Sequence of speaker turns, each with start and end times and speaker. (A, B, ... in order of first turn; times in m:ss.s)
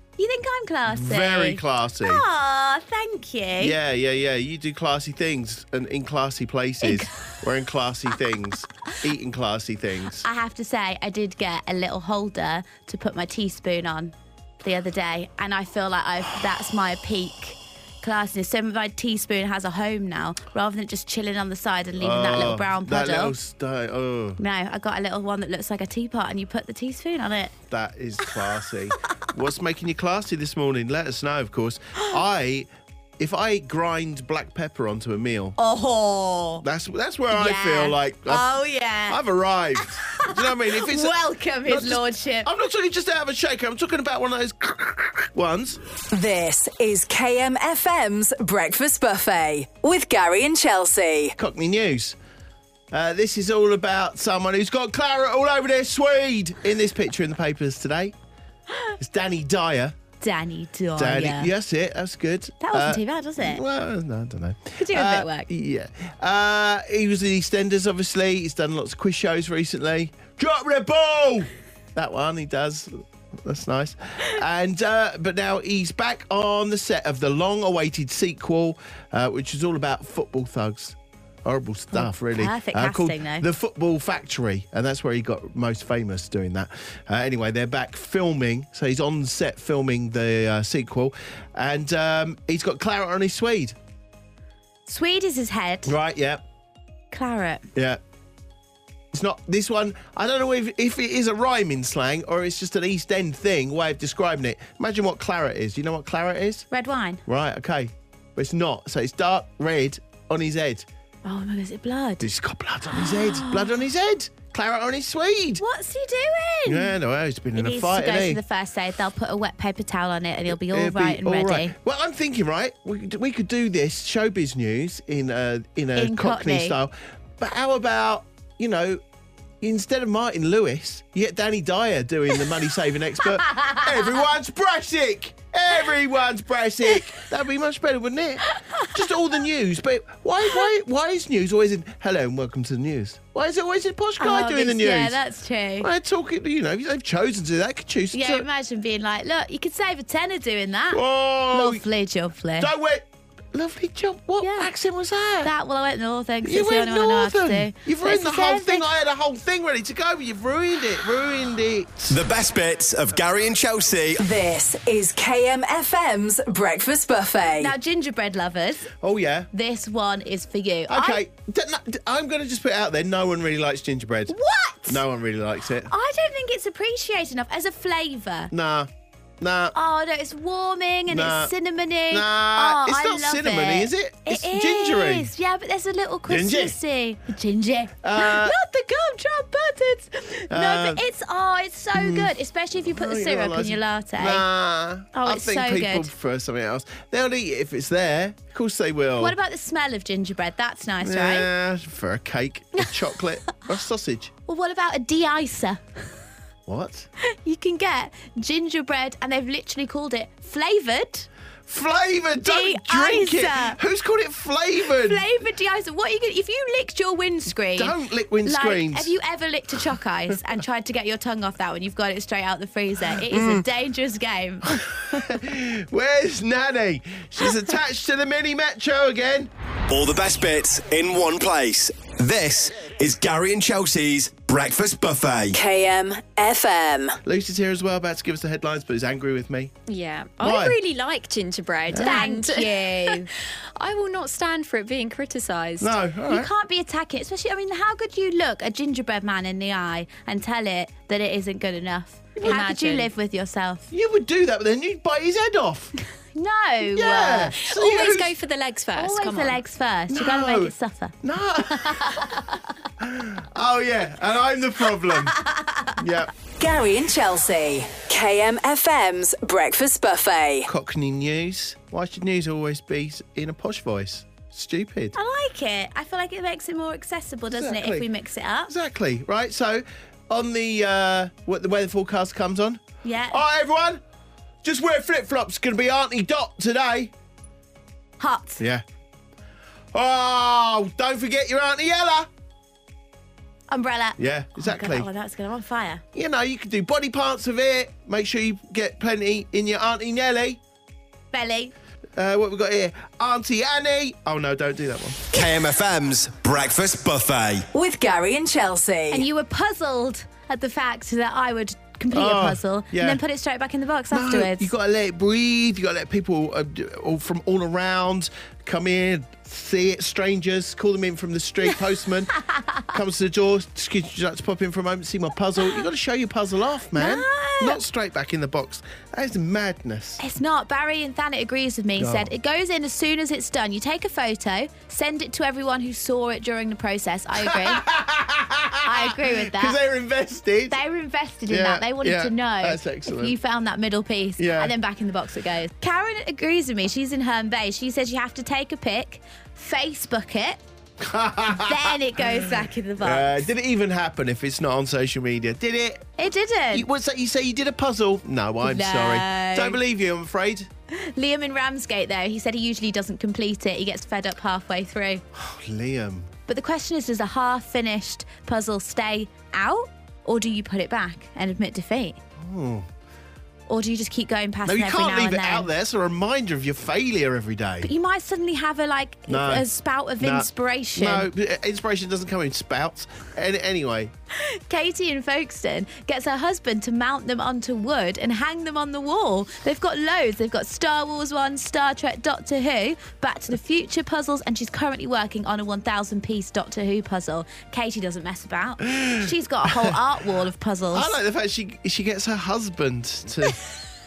0:00.2-0:03.8 A
0:00.9-0:02.2 B
0:03.6-0:10.3 B
0:06.8-0:07.3 A
0:10.2-0:23.4 A
0:22.0-0:24.4 B
0:24.4-0:27.5 A
0:27.7-0:35.6 B
0:35.6-0:36.6 A
0:36.6-0:38.5 B
0:37.3-0:39.2 A
0:39.1-0:45.8 B
0:39.8-0:42.5 A
0:46.1-0:51.4 C
0:51.4-0:52.2 B
0:52.9-0:58.2 B
0:59.0-1:00.0 B
1:00.2-1:01.5 A
1:01.0-1:33.8 B
1:02.6-1:03.6 A
1:04.8-1:05.5 A
1:21.9-1:23.4 A
1:34.9-1:36.0 A
1:35.8-1:36.4 B
1:37.1-1:37.7 A
1:37.8-1:38.0 B
1:39.1-1:46.7 B
1:46.7-1:47.2 A
1:47.2-1:50.9 B
1:51.2-1:52.3 A
1:52.2-1:55.6 B
1:53.0-1:53.7 A
1:55.6-1:57.0 A
1:56.7-1:58.4 B
1:57.6-2:01.7 A
2:00.5-2:09.0 B
2:06.0-2:06.8 A
2:09.6-2:25.2 B
2:13.5-2:13.9 A
2:24.2-2:25.9 A
2:25.8-2:28.5 B
2:28.1-2:32.7 A
2:30.9-2:31.8 B
2:32.6-2:35.5 B
2:34.4-2:34.7 A
2:35.4-2:38.9 A
2:36.4-2:42.2 B
2:42.1-2:44.2 D
2:44.2-2:47.7 C
2:47.6-2:48.9 A
2:49.0-2:49.5 B
2:49.5-2:51.2 A
2:50.9-2:54.4 B
2:54.3-2:55.0 A
2:54.9-2:55.9 B
2:55.9-2:58.5 A
2:58.5-2:59.8 B
2:59.7-3:14.4 A
3:01.1-3:01.5 B
3:02.1-3:05.3 B
3:06.3-3:06.8 B
3:08.0-3:08.6 B
3:10.5-3:11.0 B
3:11.9-3:12.3 B
3:12.9-3:19.4 B
3:15.1-3:16.1 A
3:19.2-3:21.5 A
3:21.0-3:24.3 B
3:24.5-3:25.8 A
3:26.7-3:27.1 B
3:27.2-3:31.3 A
3:31.7-3:35.2 B
3:32.4-3:33.8 A
3:34.8-3:45.3 A
3:37.7-3:39.1 B
3:43.2-3:43.6 B
3:44.7-3:49.5 B
3:49.9-3:55.6 D
3:55.5-3:57.2 C
3:57.2-3:59.7 B
3:59.9-4:05.9 E
4:00.4-4:00.8 B
4:01.9-4:02.3 B
4:02.0-4:03.3 A
4:05.8-4:06.5 B
4:06.3-4:13.9 A
4:12.4-4:12.7 B
4:12.4-4:13.1 E
4:13.9-4:15.9 B
4:16.4-4:17.6 A
4:16.8-4:18.3 B
4:17.6-4:19.6 E
4:18.9-4:22.5 A
4:20.1-4:22.4 B
4:23.0-4:25.4 B
4:25.3-4:25.9 A
4:26.0-4:26.3 B
4:26.6-4:30.7 C
4:30.7-4:35.2 B
4:35.2-4:38.7 A
4:37.5-4:38.1 B
4:38.7-4:44.0 B
4:43.0-4:43.4 A
4:44.6-4:47.1 B
4:48.2-4:48.6 A
4:48.6-4:48.8 B
4:49.9-4:52.3 B
4:53.7-4:56.0 A
4:54.2-4:55.1 B
4:56.1-5:00.6 B
5:01.3-5:01.7 A
5:02.2-5:05.3 B
5:05.3-5:07.7 D
5:07.7-5:09.2 C
5:09.1-5:14.7 A
5:12.1-5:13.2 B
5:14.1-5:22.4 B
5:22.4-5:22.8 A
5:22.9-5:30.2 B
5:27.0-5:27.8 A
5:30.2-5:37.8 A
5:32.0-5:32.3 B
5:37.4-5:40.8 B
5:38.8-5:39.8 A
5:40.7-5:50.6 A
5:41.5-5:43.4 B
5:44.4-5:44.8 B
5:51.0-5:56.1 B
5:51.5-5:53.4 A
5:56.2-5:56.9 A
5:56.7-6:00.7 B
5:58.6-5:59.8 A
6:00.9-6:05.2 A
6:05.3-6:06.3 B
6:06.5-6:12.2 A
6:12.4-6:12.9 B
6:13.7-6:15.7 A
6:14.7-6:17.9 B
6:17.8-6:21.3 A
6:19.3-6:19.7 B
6:20.2-6:24.1 B
6:24.4-6:41.2 A
6:38.8-6:40.0 B
6:40.9-6:43.6 B